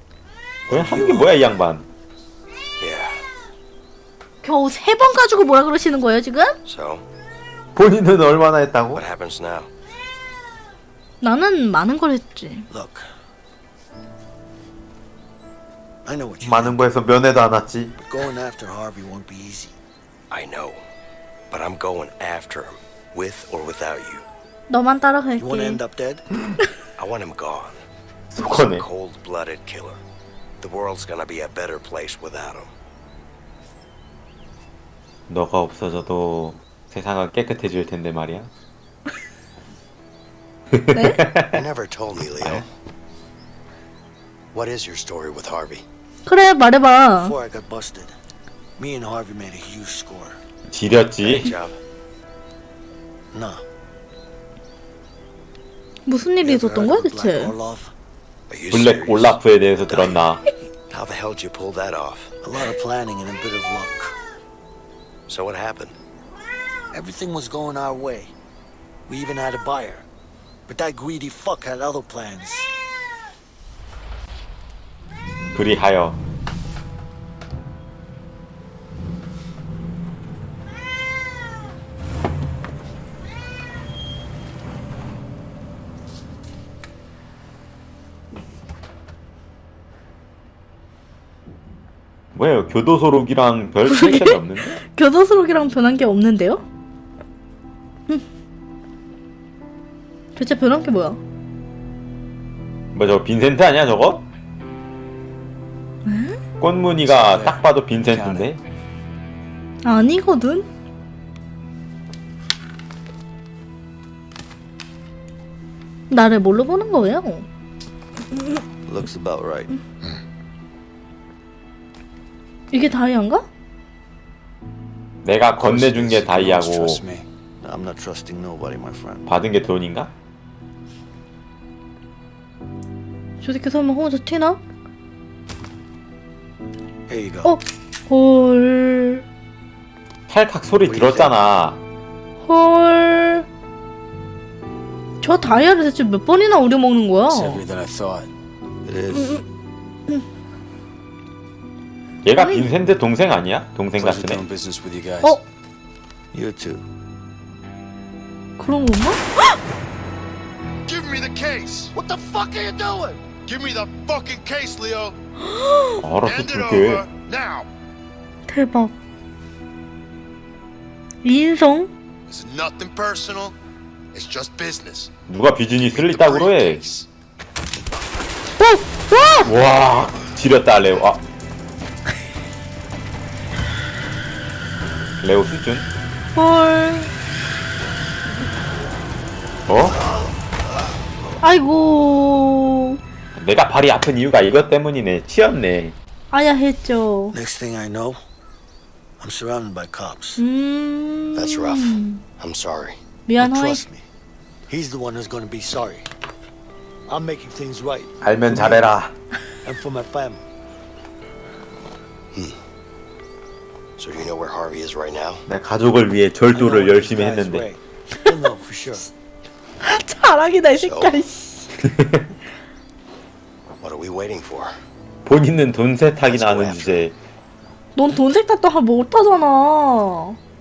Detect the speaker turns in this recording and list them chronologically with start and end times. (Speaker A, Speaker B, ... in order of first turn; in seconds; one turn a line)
Speaker A: 0.7-1.6
Speaker B: 0.7-1.8
Speaker A: 2.8-3.2
Speaker C: 4.4-6.5
Speaker A: 6.7-7.0
Speaker B: 7.8-9.0
Speaker A: 8.9-9.7
Speaker C: 11.2-12.7
Speaker D: 12.7-13.1
Speaker D: 16.0-16.8
Speaker B: 16.4-17.9
Speaker D: 18.0-19.8
Speaker A: 20.3-20.9
Speaker A: 21.5-24.2
Speaker C: 24.7-25.8
Speaker D: 25.4-26.2
Speaker A: 27.0-27.8
Speaker B: 28.3-28.9
Speaker A: 28.4-30.0
Speaker A: 30.6-32.7
Speaker B: 35.3-38.5
Speaker B: 40.7-41.6
Speaker C: 40.9-41.2
Speaker A: 41.5-42.7
Speaker B: 42.4-42.6
Speaker A: 44.5-45.8
Speaker C: 46.2-47.4
Speaker D: 47.2-48.1
Speaker D: 48.8-50.4
Speaker B: 50.7-51.5
Speaker A: 51.2-51.8
Speaker D: 53.3-53.6
Speaker C: 56.1-57.5
Speaker D: 56.4-57.9
Speaker A: 58.5-62.3
Speaker B: 58.7-60.4
Speaker D: 62.4-64.2
Speaker A: 65.3-66.0
Speaker D: 66.9-68.3
Speaker D: 69.1-70.1
Speaker D: 70.7-72.7
Speaker B: 75.5-76.2
Speaker B: 92.3-94.8
Speaker C: 93.8-96.6
Speaker C: 100.3-101.2
Speaker B: 102.9-104.2
Speaker C: 106.0-106.4
Speaker B: 106.6-108.6
Speaker E: 107.0-108.5
Speaker C: 109.8-110.7
Speaker C: 116.1-117.5
Speaker D: 118.9-119.7
Speaker C: 122.7-123.5
Speaker B: 125.2-127.0
Speaker E: 125.5-127.2
Speaker D: 127.6-129.3
Speaker B: 129.2-130.1
Speaker C: 133.4-134.6
Speaker D: 137.1-137.6
Speaker C: 137.4-139.2
Speaker B: 140.3-141.8
Speaker D: 140.8-141.4
Speaker C: 142.4-143.4
Speaker C: 145.2-147.6
Speaker E: 147.3-148.3
Speaker D: 148.8-149.4
Speaker C: 149.2-149.4
Speaker B: 152.2-154.4
Speaker C: 152.4-152.7
Speaker E: 153.9-155.4
Speaker D: 156.3-156.8
Speaker C: 158.6-159.2
Speaker F: 160.8-161.9
Speaker D: 161.9-163.2
Speaker F: 163.3-165.2
Speaker C: 165.4-166.0
Speaker B: 166.0-167.1
Speaker F: 166.2-167.7
Speaker C: 168.5-168.9
Speaker C: 171.2-171.9
Speaker F: 172.3-173.6
Speaker F: 174.1-175.1
Speaker B: 175.3-176.8
Speaker A: 175.8-177.1
Speaker C: 178.6-179.5
Speaker B: 179.4-181.2
Speaker B: 185.2-185.9
Speaker C: 186.3-187.1
Speaker B: 189.7-190.0
Speaker D: 189.8-190.3
Speaker C: 191.4-193.0
Speaker B: 193.3-195.9
Speaker C: 196.3-197.3
Speaker D: 197.3-198.2
Speaker D: 199.2-200.4
Speaker C: 200.4-202.2
Speaker A: 201.3-203.0
Speaker C: 203.3-203.8
Speaker D: 203.4-204.1
Speaker D: 204.7-206.1
Speaker D: 207.1-208.9
Speaker B: 208.2-209.1
Speaker D: 209.6-210.4
Speaker A: 212.3-212.6
Speaker A: 214.0-215.5
Speaker B: 215.5-217.7
Speaker D: 216.5-219.1
Speaker C: 219.8-221.7
Speaker A: 220.7-221.2
Speaker B: 221.8-222.3
Speaker A: 223.8-224.8
Speaker B: 225.2-227.1
Speaker A: 226.2-227.1
Speaker C: 227.9-230.4